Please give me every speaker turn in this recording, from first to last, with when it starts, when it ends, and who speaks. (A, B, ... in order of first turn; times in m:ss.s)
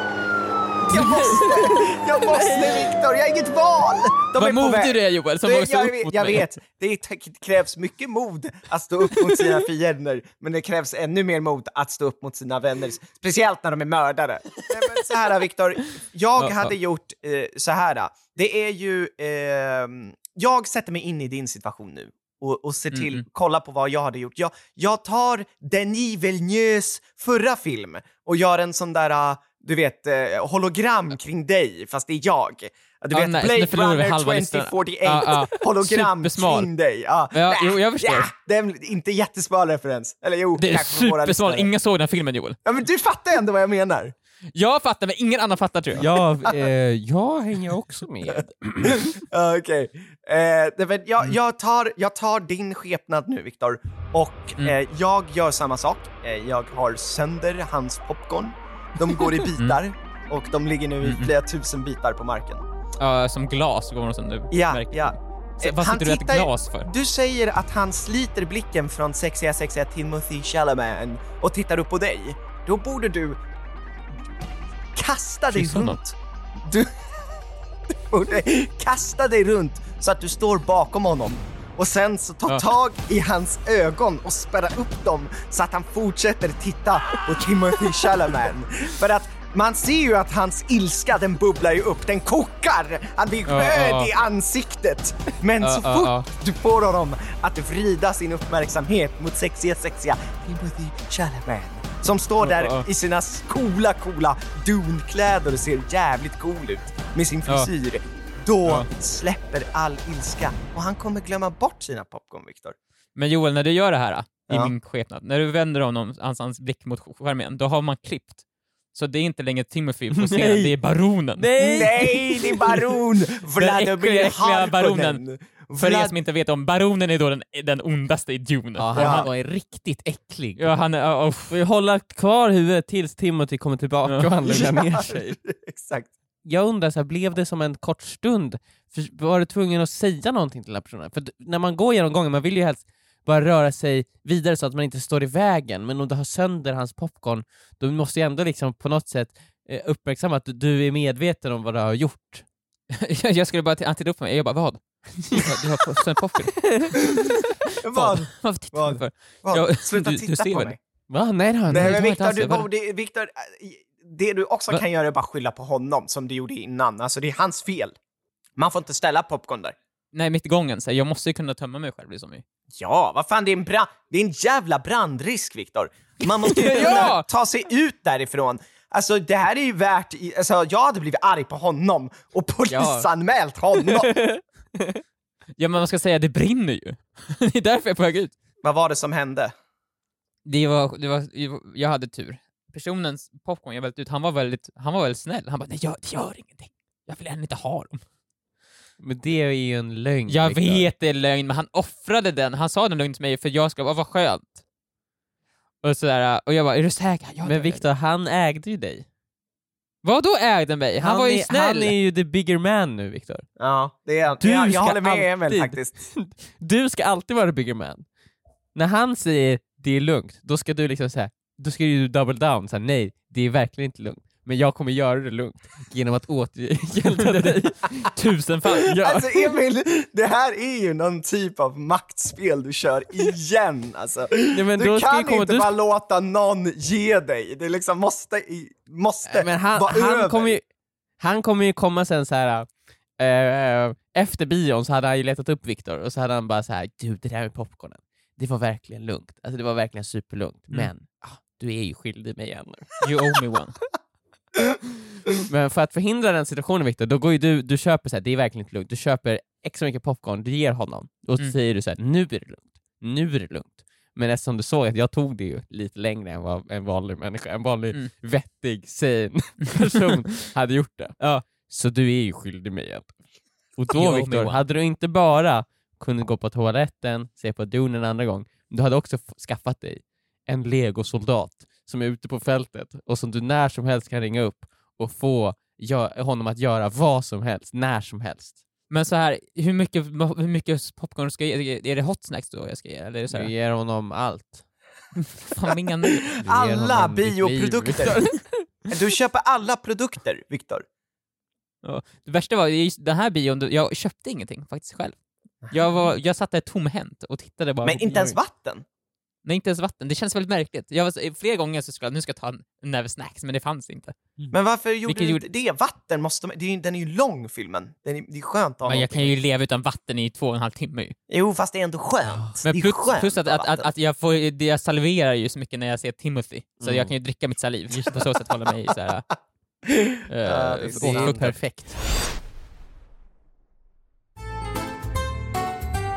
0:00.8-0:41.7 A
0:00.9-0:02.9 B
0:04.4-0:06.5 C
0:16.4-0:16.7 C
0:22.9-0:23.2 C
0:33.1-0:36.7 C
0:37.3-0:38.3 C
0:40.6-0:42.6 C
0:42.6-0:44.1 A
0:44.5-0:46.1 C
0:45.9-0:49.1 B
0:48.4-1:02.6 A
1:01.0-1:01.3 C
1:03.0-1:06.9 C
1:04.5-1:13.4 A
1:14.9-1:17.1 A
1:15.5-1:16.0 C
1:17.9-1:52.8 A
1:33.4-1:34.1 C
1:35.6-1:36.3 C
1:42.4-1:42.8 C
1:53.2-1:58.4 C
1:54.5-1:54.7 A
1:58.9-2:01.9 C
2:00.1-2:00.8 B
2:01.4-2:02.5 B
2:01.6-2:06.1 A
2:03.6-2:05.2 C
2:05.8-2:09.3 C
2:08.8-2:10.7 B
2:08.9-2:09.3 A
2:10.6-2:11.5 C
2:11.5-2:15.4 B
2:14.5-2:16.1 A
2:16.4-2:32.4 B
2:32.9-2:37.2 C
2:37.8-2:40.8 A
2:37.9-2:40.7 C
2:41.1-2:42.0 B
2:41.7-2:48.0 A
2:41.7-2:42.7 C
2:48.6-2:49.7 A
2:50.1-2:52.4 C
2:52.8-3:04.1 A
2:56.4-2:57.2 C
3:02.7-3:03.1 B
3:03.9-3:05.0 B
3:05.6-3:08.3 C
3:08.6-3:09.5 A
3:10.4-3:18.0 C
3:19.0-3:20.9 B
3:20.3-3:24.6 C
3:25.8-3:27.8 C
3:27.4-3:29.0 B
3:30.0-3:31.9 C
3:31.0-3:33.4 B
3:33.6-3:36.0 A
3:34.4-3:38.0 B
3:38.7-3:48.1 B
3:47.4-3:49.4 C
3:48.8-4:00.6 A
3:54.5-3:55.7 B
3:59.2-4:00.6 B
4:01.2-4:13.0 B
4:13.0-4:13.8 C
4:15.4-4:33.2 B
4:31.2-4:31.4 C
4:33.8-4:48.6 B
4:33.9-4:34.6 C
4:48.9-4:53.5 C
4:53.3-4:54.6 B
4:55.2-4:56.4 C
4:56.2-5:00.8 A
4:56.4-4:58.5 B
5:01.8-5:08.1 C
5:07.6-5:08.4 B
5:07.8-5:08.8 A
5:09.4-5:14.2 C
5:14.5-5:19.3 A
5:15.0-5:15.4 C
5:18.8-5:21.1 C
5:21.3-5:23.9 A
5:22.6-5:29.3 C
5:26.8-5:27.1 B
5:27.9-5:28.3 B
5:30.3-5:31.6 C
5:30.4-5:31.5 A
5:30.9-5:32.0 B